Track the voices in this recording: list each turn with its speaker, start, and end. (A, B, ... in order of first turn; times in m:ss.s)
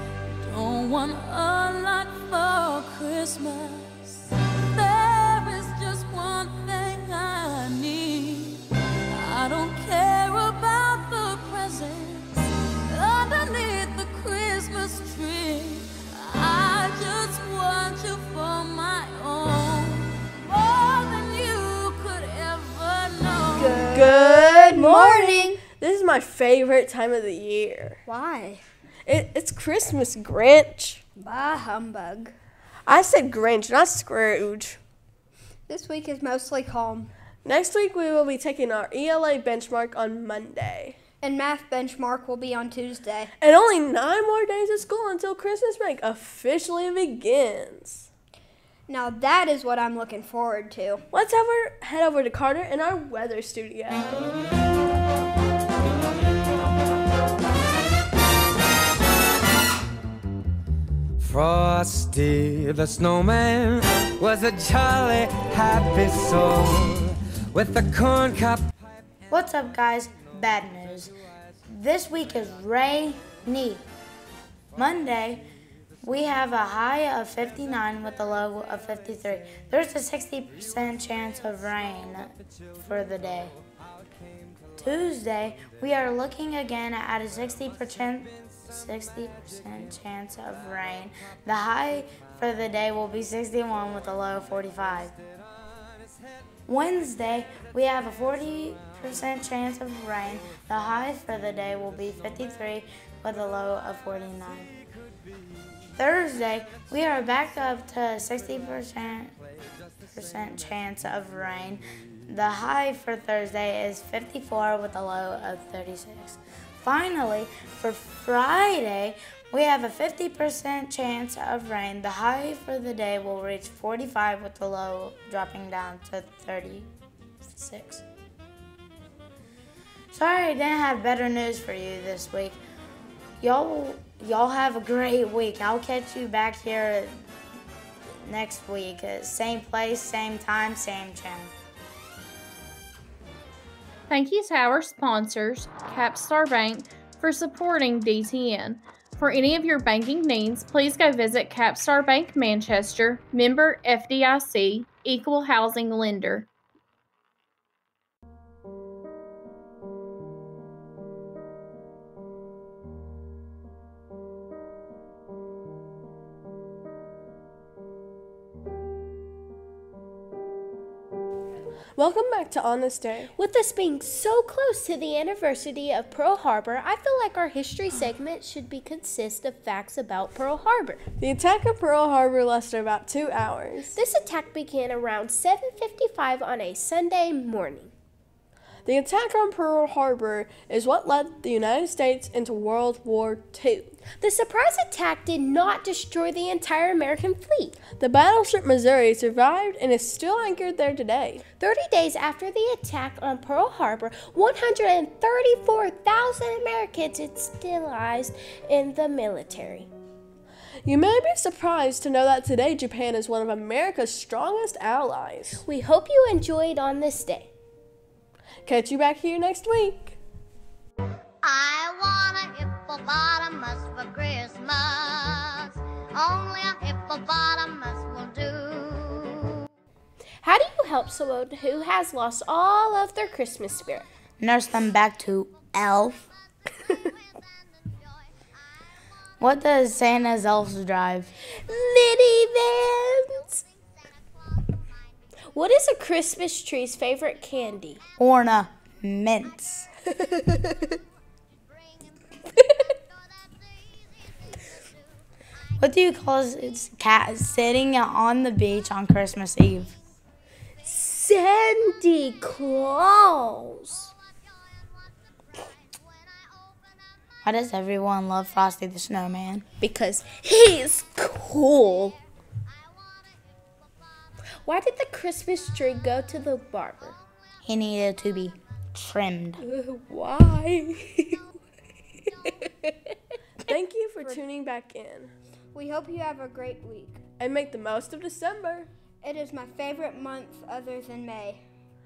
0:00.4-0:23.8 A
0:23.5-0:25.6 B
0:23.9-0:28.0 C
0:28.1-0:28.6 B
0:29.1-0:31.0 C
0:31.2-0:32.3 B
0:32.8-0:34.8 C
0:35.7-0:37.1 B
0:37.4-0:41.0 C
0:41.2-0:43.3 B
0:43.4-0:48.1 C
0:48.9-0:51.0 B
0:51.1-0:54.3 C
1:01.2-1:08.7 D
1:09.3-1:11.1 E
1:11.7-1:13.8 E
1:14.8-1:15.4 E
1:16.0-1:23.6 E
1:24.8-1:35.1 E
1:36.7-1:44.7 E
1:45.9-1:49.4 E
1:50.1-2:06.9 E
2:07.4-2:08.0 E
2:10.1-2:12.6 E
2:13.4-2:17.2 E
2:18.2-2:21.5 E
2:24.1-2:36.5 F
2:52.0-2:53.3 C
2:53.3-3:01.0 G
3:01.2-3:03.9 C
3:03.9-3:07.9 G
3:08.8-3:14.0 C
3:14.1-3:17.7 G
3:18.0-3:21.4 C
3:21.6-3:29.9 G
3:30.8-3:35.6 C
3:35.6-3:37.5 G
3:38.6-3:40.2 C
3:41.4-3:49.6 H
3:50.4-3:54.1 G
3:54.4-3:56.3 E
3:59.4-4:01.3 E
4:01.6-4:03.6 G
4:05.5-4:08.0 G
4:08.2-4:09.9 E
4:10.3-4:10.6 G
4:15.8-4:19.9 E
4:20.8-4:24.1 G
4:27.4-4:29.6 E
4:29.8-4:32.2 G
4:34.6-4:37.2 G
4:37.6-4:39.6 E
4:39.7-4:41.4 G
4:43.7-4:45.3 C
4:45.7-4:47.2 B
4:47.4-4:48.9 C
4:49.2-4:51.6 B